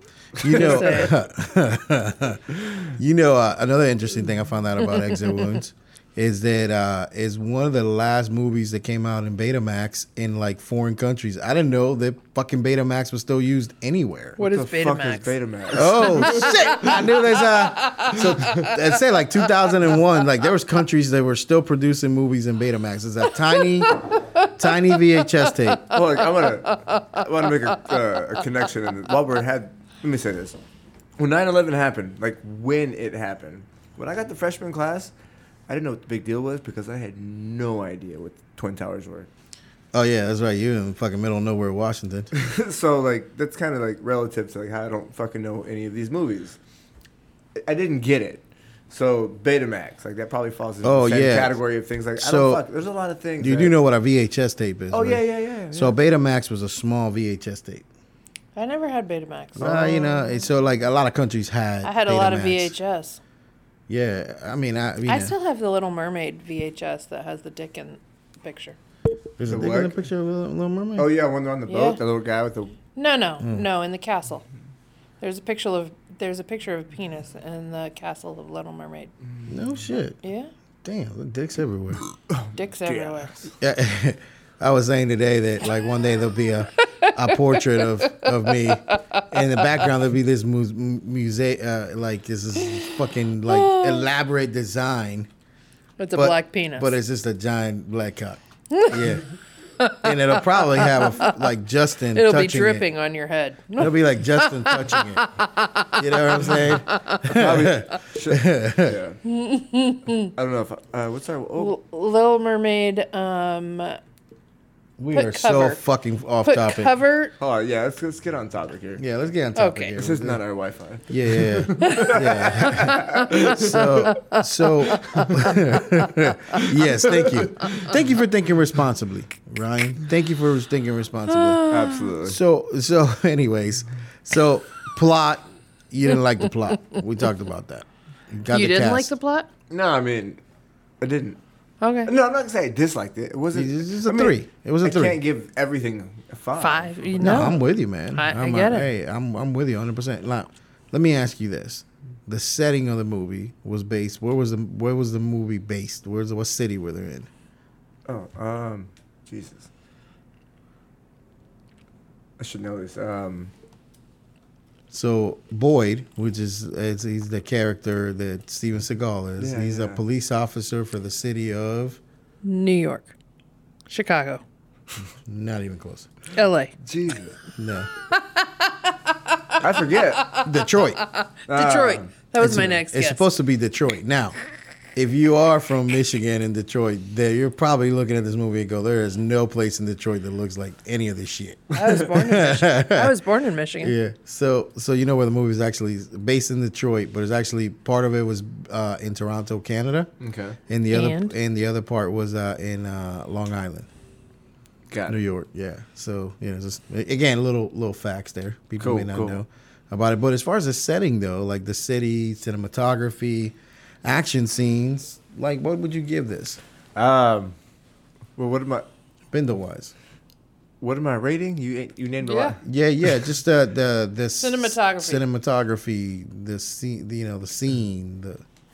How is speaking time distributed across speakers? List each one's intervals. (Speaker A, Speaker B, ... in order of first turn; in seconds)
Speaker A: 0.4-1.1, 14.4-17.0, 18.1-18.7, 25.9-30.6, 31.2-35.1, 35.7-39.3, 42.4-46.6, 47.6-53.8, 54.9-56.0, 69.5-70.0, 71.0-72.8, 82.3-83.5, 107.2-109.2, 110.3-111.8, 117.4-119.0, 120.0-124.1, 127.1-127.9, 131.7-132.4, 139.7-140.4, 141.0-141.4, 142.1-147.5, 158.1-159.7, 162.4-163.5, 169.4-170.0, 176.8-177.4, 179.6-180.4, 181.5-182.1, 200.2-200.6, 204.9-205.2, 208.8-209.4, 216.9-217.6, 218.4-218.9, 220.8-222.6
Speaker B: 0.4-14.4, 15.7-23.9, 24.6-25.8, 39.9-42.3, 50.8-51.6, 52.2-52.6, 53.4-57.9, 59.6-62.8, 63.9-65.3, 69.4-71.1, 79.5-80.2, 80.8-82.0, 83.6-95.3, 96.1-99.2, 100.0-102.9, 103.8-105.3, 105.9-109.0, 115.0-117.0, 119.0-120.4, 121.1-131.7, 132.2-139.1, 143.5-145.2, 147.2-157.3, 164.9-172.0, 175.3-176.1, 177.6-177.9, 180.4-181.0, 182.4-184.4, 184.9-193.2, 193.8-200.1, 200.7-203.9, 205.1-216.6, 219.3-219.9, 222.6-228.4
Speaker C: 0.5-1.1, 14.4-18.8, 23.5-26.0, 26.7-27.2, 58.6-60.4, 61.8-63.2, 65.1-68.8, 71.7-72.0, 73.0-74.4, 75.2-79.1, 80.2-80.5, 82.6-83.4, 86.8-89.6, 92.6-92.9, 93.5-94.1, 96.0-96.9, 98.7-99.0, 99.8-101.4, 102.1-107.2, 109.3-110.3, 111.6-114.0, 115.1-115.8, 116.4-117.3, 119.6-120.0, 121.8-125.8, 131.3-132.1, 138.5-139.5, 141.8-142.1, 146.6-147.6, 148.1-148.9, 172.4-173.1, 173.9-174.4, 176.3-176.7, 178.2-179.6, 180.2-180.4, 181.0-183.3, 191.8-194.0, 200.9-201.3, 222.2-222.6, 224.4-225.2